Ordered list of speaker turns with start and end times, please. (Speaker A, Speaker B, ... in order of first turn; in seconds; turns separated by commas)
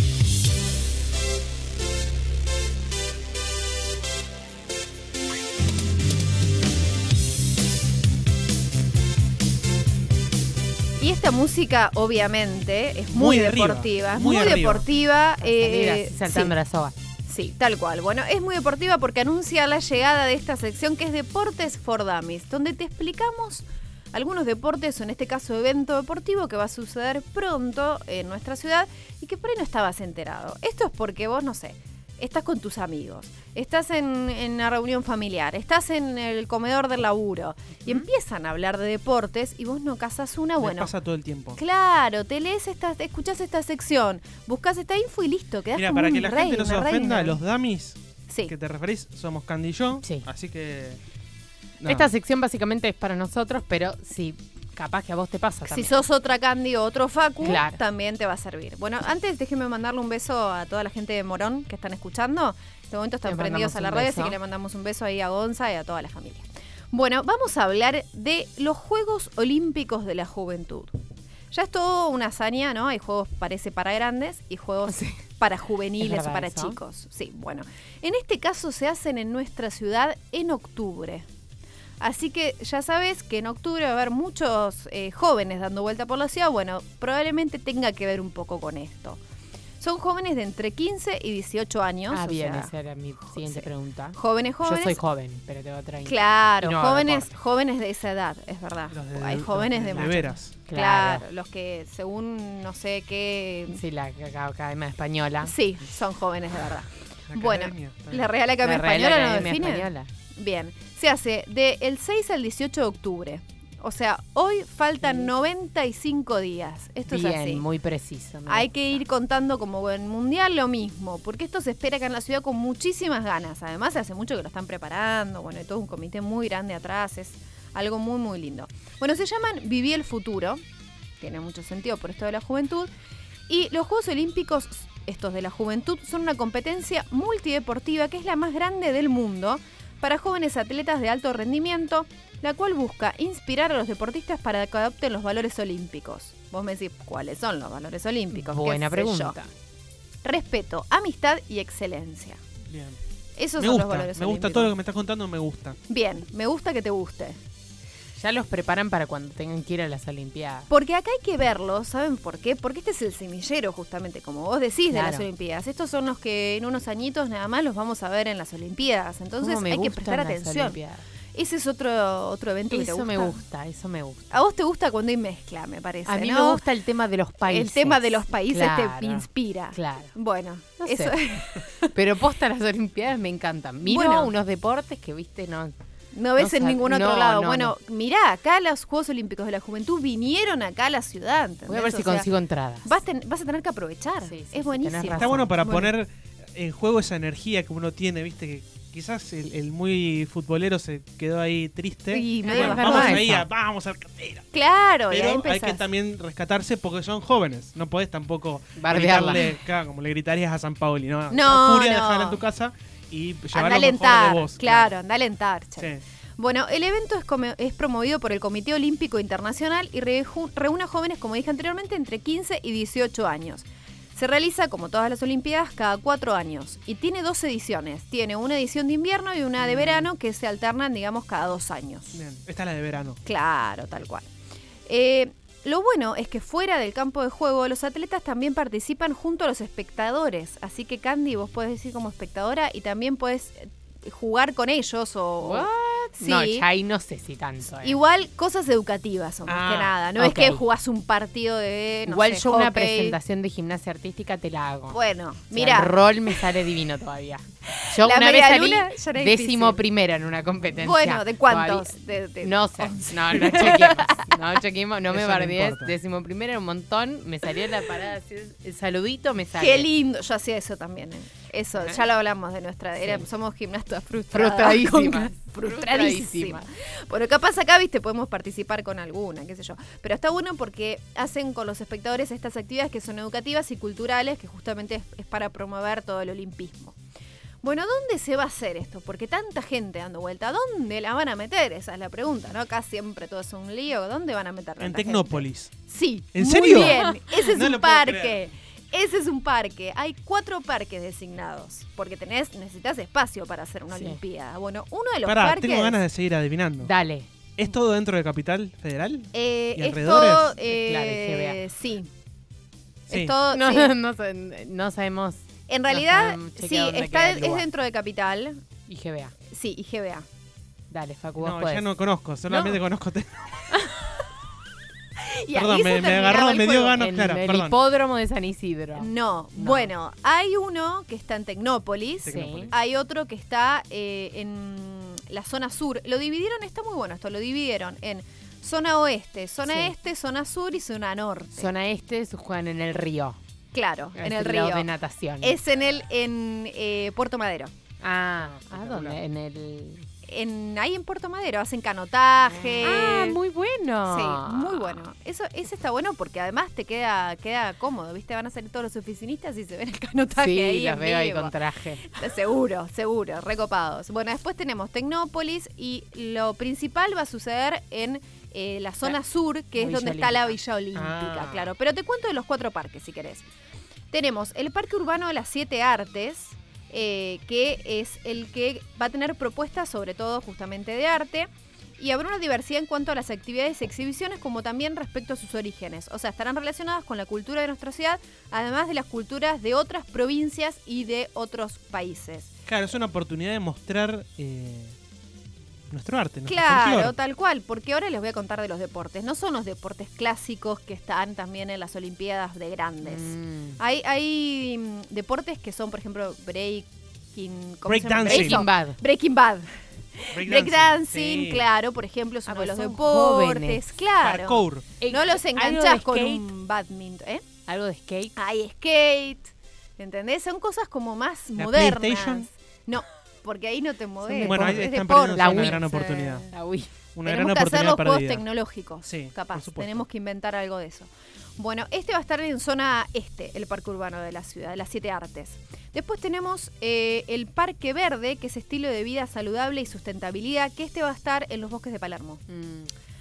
Speaker A: 11.0-16.5, Speaker B: 13.1-14.8, Speaker C: 15.4-16.9, Speaker A: 17.3-40.9, Speaker B: 40.6-41.6, Speaker A: 41.6-47.4, Speaker B: 45.7-51.0, Speaker C: 50.0-50.3, Speaker B: 51.8-52.1, Speaker C: 51.9-56.0, Speaker A: 55.7-71.0, Speaker C: 57.4-57.8, Speaker C: 63.2-64.4, Speaker A: 71.5-81.2, Speaker C: 74.9-75.2, Speaker C: 76.0-76.8, Speaker A: 82.0-89.2, Speaker A: 89.8-92.7, Speaker C: 92.1-97.3, Speaker A: 93.2-95.0, Speaker A: 96.0-103.8, Speaker B: 98.9-100.5, Speaker C: 100.7-101.2, Speaker C: 103.7-105.5, Speaker A: 105.4-117.6, Speaker B: 107.3-108.3, Speaker C: 108.6-110.1, Speaker C: 115.0-115.3, Speaker C: 117.1-118.7, Speaker A: 118.5-130.6, Speaker A: 131.2-132.9, Speaker A: 133.5-149.4, Speaker C: 148.3-149.5, Speaker A: 150.2-152.4, Speaker B: 152.7-153.0, Speaker A: 153.4-154.7, Speaker B: 153.6-155.8, Speaker A: 155.9-157.4, Speaker C: 158.2-160.7, Speaker A: 160.7-170.8, Speaker C: 164.9-165.2, Speaker C: 169.4-171.0, Speaker A: 171.3-173.4, Speaker C: 172.7-174.3, Speaker A: 174.3-176.6, Speaker C: 176.1-180.1, Speaker A: 177.5-181.9, Speaker C: 180.8-185.8, Speaker A: 183.8-184.3, Speaker A: 186.1-192.3, Speaker C: 186.4-187.7, Speaker C: 191.7-192.9, Speaker A: 192.8-195.9, Speaker C: 194.2-195.5, Speaker B: 195.1-204.4, Speaker A: 202.1-203.2, Speaker C: 202.4-203.4, Speaker A: 204.5-205.8, Speaker B: 205.1-214.9, Speaker C: 208.8-209.5, Speaker A: 211.3-212.4, Speaker A: 213.5-232.2, Speaker C: 229.7-230.1, Speaker B: 232.1-233.2, Speaker A: 233.2-234.2, Speaker A: 234.9-246.7, Speaker C: 245.4-248.0, Speaker A: 247.8-253.2, Speaker B: 249.5-249.9, Speaker C: 250.2-250.6, Speaker C: 252.1-255.0, Speaker A: 254.9-256.4, Speaker C: 255.5-269.9, Speaker A: 258.0-259.8, Speaker A: 260.7-264.3, Speaker B: 265.1-265.9, Speaker A: 269.6-287.0, Speaker C: 274.3-276.7, Speaker A: 287.6-306.0, Speaker B: 294.8-295.8, Speaker B: 296.3-298.5, Speaker C: 296.7-297.3, Speaker C: 303.9-304.2, Speaker B: 305.2-306.9, Speaker C: 306.8-307.3, Speaker B: 307.6-310.5, Speaker A: 309.3-312.1, Speaker C: 310.6-311.6, Speaker A: 313.1-313.9, Speaker C: 313.5-317.6, Speaker A: 315.7-318.6, Speaker C: 318.9-319.3, Speaker A: 319.5-320.2, Speaker C: 320.9-321.9, Speaker B: 321.4-323.6, Speaker C: 322.5-322.8, Speaker A: 323.8-324.2, Speaker A: 325.2-327.0, Speaker B: 325.5-327.8, Speaker C: 327.0-329.9, Speaker A: 329.0-341.7, Speaker B: 332.2-332.7, Speaker C: 332.3-332.7, Speaker C: 339.7-339.9, Speaker C: 341.5-343.4, Speaker A: 343.7-344.9, Speaker C: 344.1-345.6, Speaker A: 345.4-347.7, Speaker C: 348.0-350.1, Speaker B: 348.6-349.2, Speaker A: 350.3-353.4, Speaker C: 352.8-355.0, Speaker A: 354.1-373.4, Speaker C: 360.4-362.1, Speaker C: 369.8-370.6, Speaker B: 370.9-371.7, Speaker A: 374.1-392.5, Speaker B: 392.7-394.9, Speaker B: 395.9-397.1, Speaker A: 396.5-417.4, Speaker C: 403.0-403.8, Speaker B: 407.9-408.6, Speaker C: 408.2-409.0, Speaker B: 410.3-411.7, Speaker C: 412.5-413.9, Speaker B: 414.2-414.9, Speaker C: 415.0-416.4, Speaker C: 417.7-418.3, Speaker A: 418.4-426.4, Speaker B: 421.6-422.5, Speaker C: 424.2-424.8, Speaker B: 424.4-426.5, Speaker C: 425.4-426.9, Speaker B: 427.1-428.4, Speaker A: 427.2-442.4, Speaker B: 429.0-430.0, Speaker C: 442.5-442.9